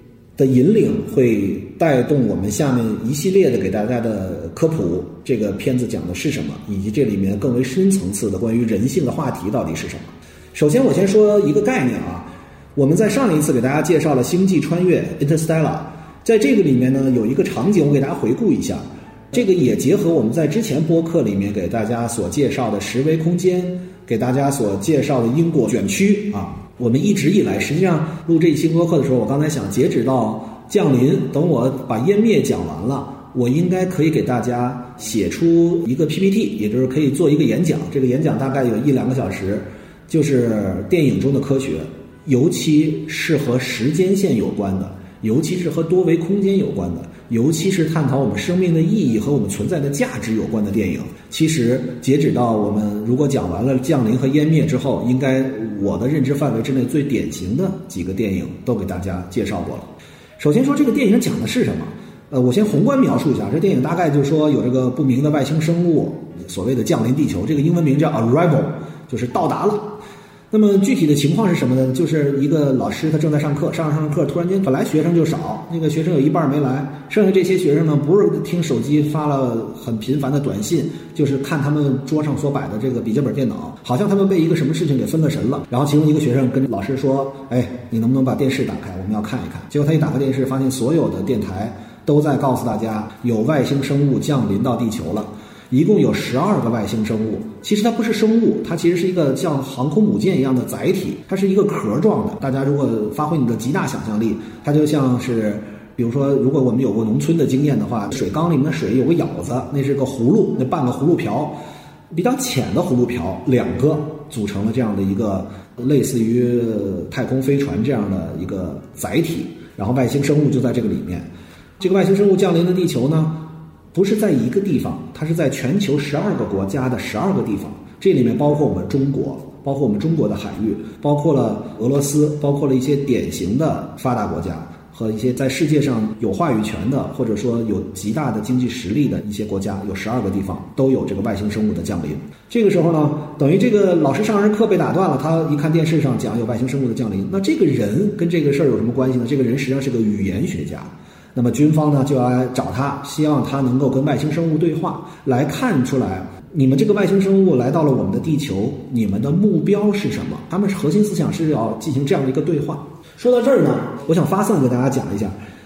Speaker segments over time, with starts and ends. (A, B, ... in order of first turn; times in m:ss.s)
0:00.4-1:09.9 A
1:10.5-1:51.6 A
1:52.1-2:01.3 A
2:01.8-2:45.4 A